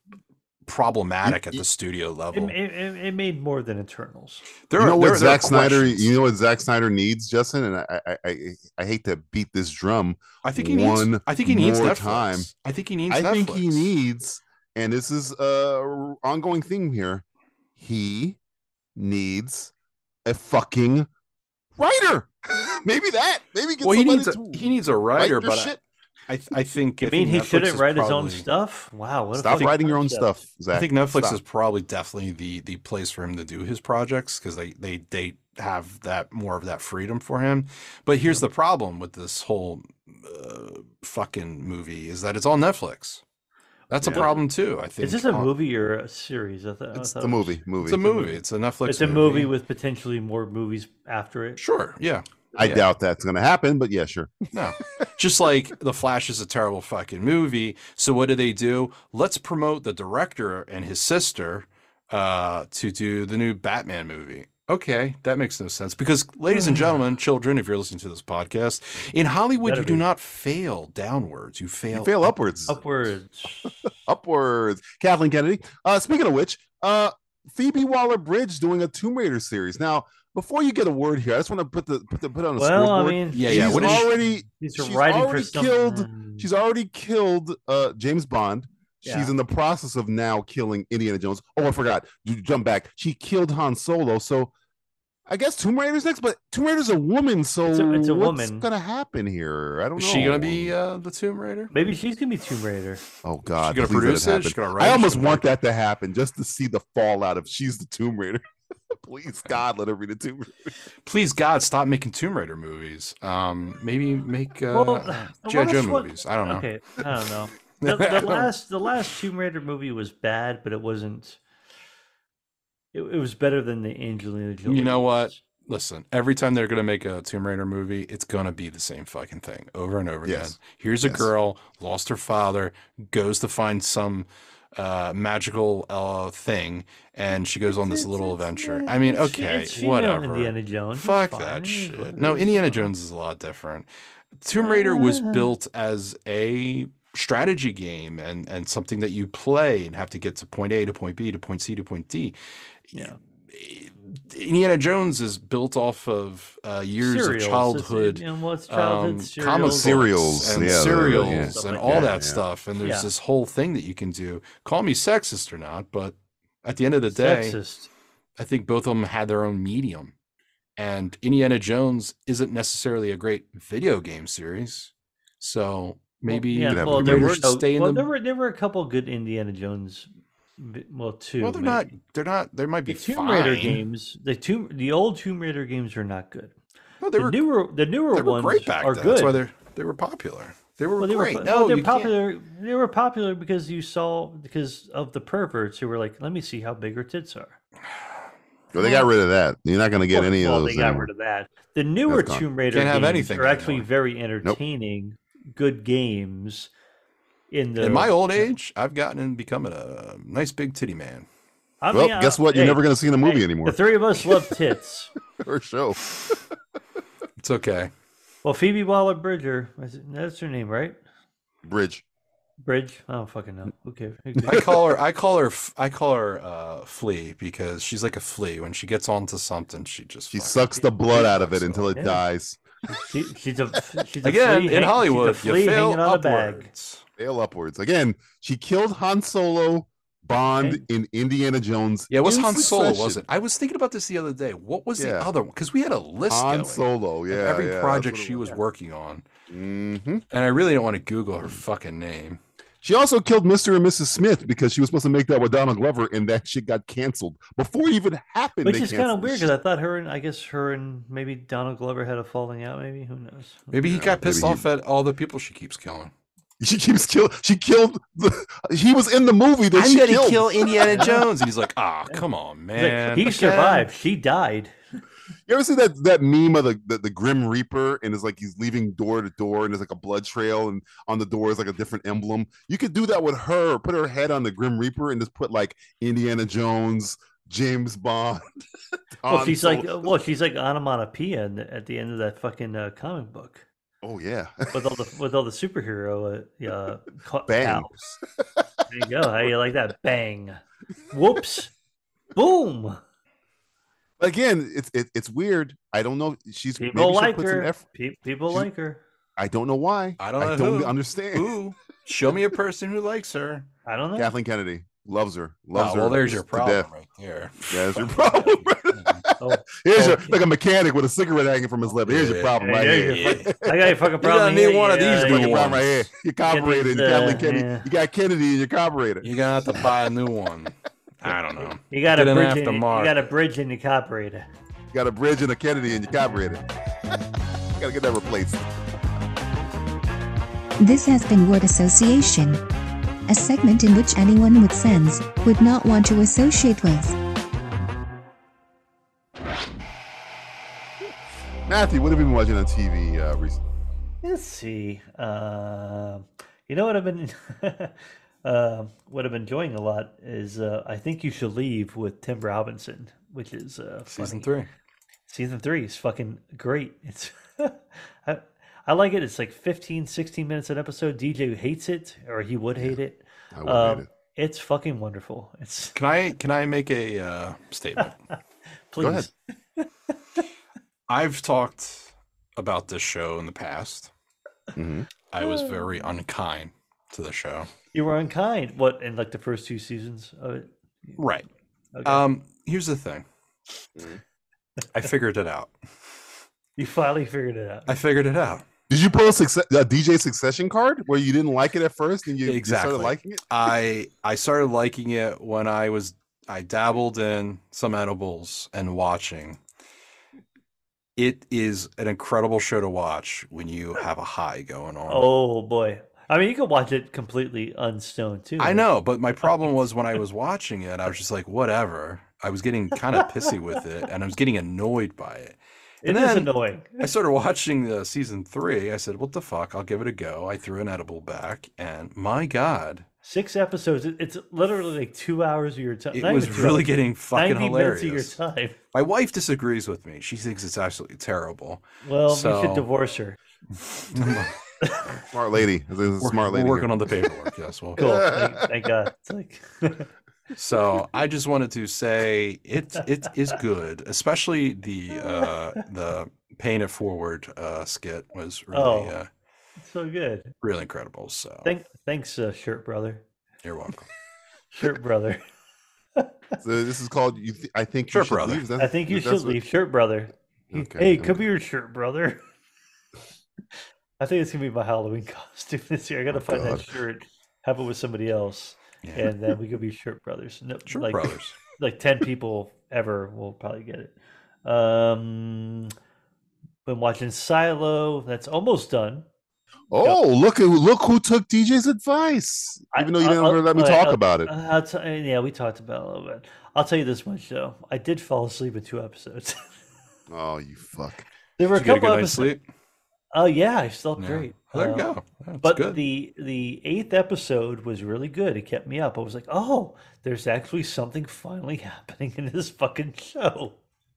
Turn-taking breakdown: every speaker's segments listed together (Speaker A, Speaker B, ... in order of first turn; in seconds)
Speaker A: 0.7-2.5, 4.7-6.1, 10.4-13.9, 23.8-25.7, 26.3-28.4, 30.7-43.2, 43.9-45.5, 47.8-49.5, 51.6-52.9, 54.5-72.3, 83.3-84.1, 100.0-101.7, 103.6-105.5, 111.0-116.7, 117.8-118.5, 124.7-143.9, 144.4-152.3, 152.9-167.6, 168.4-170.1, 170.8-178.1, 181.4-183.8, 187.0-187.5, 188.1-192.1, 202.7-203.9, 207.8-211.2, 217.4-217.9, 224.5-232.0, 234.2-237.0, 242.1-249.2, 250.3-252.4, 263.7-266.1, 269.8-273.9, 310.2-313.6, 315.7-319.2, 322.0-323.5, 324.2-326.0, 329.2-333.3, 364.1-364.7, 375.9-378.1, 381.1-384.1, 385.3-387.7, 391.2-391.5, 392.0-393.2, 394.9-395.7, 397.9-398.6, 402.4-409.6, 411.2-415.3, 418.6-433.0, 436.1-438.3, 438.9-442.9, 444.1-444.5, 446.2-448.0, 450.5-459.3, 460.6-461.7, 463.6-464.1, 468.1-468.7, 479.0-479.3, 480.9-481.6, 501.7-502.6, 504.2-506.0
Speaker B: 1.2-1.6, 4.8-12.5, 13.1-17.2, 17.8-18.4, 18.9-19.7, 20.2-21.1, 21.8-25.8, 29.3-31.4, 44.0-44.3, 46.9-48.4, 52.5-54.4, 71.9-72.8, 74.0-94.5, 95.3-100.7, 103.2-110.7, 130.2-131.3, 142.2-142.5, 159.7-162.4, 176.6-177.4, 198.7-201.1, 202.1-202.4, 211.9-214.3, 215.4-216.4, 221.6-222.0, 224.5-224.8, 230.3-232.6, 237.2-243.2, 245.0-245.3, 246.3-248.5, 249.5-250.2, 252.8-259.5, 263.8-264.6, 266.6-271.2, 275.5-288.4, 289.2-290.1, 294.0-294.8, 297.5-298.2, 304.2-307.8, 309.4-311.5, 314.2-316.9, 317.7-323.9, 325.1-329.9, 334.9-336.6, 337.8-338.7, 351.6-353.6, 373.5-374.1, 379.0-379.3, 384.8-385.1, 398.9-403.4, 445.1-447.0, 448.0-448.6, 466.6-469.6, 470.7-471.4, 476.3-476.9, 489.9-494.5, 500.3-501.2
Speaker C: 2.3-4.4, 27.0-30.3, 44.1-44.4, 45.0-47.6, 48.9-51.6, 66.5-67.0, 69.6-70.0, 72.7-73.8, 82.6-86.5, 89.0-89.3, 97.7-98.7, 101.7-103.0, 114.7-121.4, 122.9-125.4, 137.7-142.2, 144.6-145.5, 157.0-162.1, 162.8-163.1, 167.1-167.9, 176.3-181.9, 182.9-186.5, 187.2-189.4, 191.0-197.6, 198.7-199.1, 200.1-206.7, 207.5-208.5, 211.8-215.1, 218.4-221.0, 222.6-224.6, 231.9-232.2, 232.9-236.7, 240.6-240.8, 258.6-263.7, 270.9-271.2, 272.7-274.7, 289.3-293.6, 294.7-298.1, 298.9-301.7, 302.3-303.0, 306.8-309.0, 313.9-314.3, 319.4-320.4, 322.6-325.7, 326.5-327.9, 331.9-334.4, 354.2-364.5, 365.3-375.9, 378.9-379.9, 385.4-385.8, 387.9-391.2, 391.9-392.2, 396.8-397.9, 415.1-418.9, 426.0-427.0, 433.2-438.8, 442.0-443.4, 444.8-445.1, 448.0-450.1, 458.7-459.1, 459.8-460.5, 461.6-463.2, 464.7-465.4, 468.8-472.4, 474.2-485.9, 486.9-489.2, 492.9-499.6, 501.6-502.5, 503.3-513.8
Speaker D: 340.8-342.6, 343.3-347.1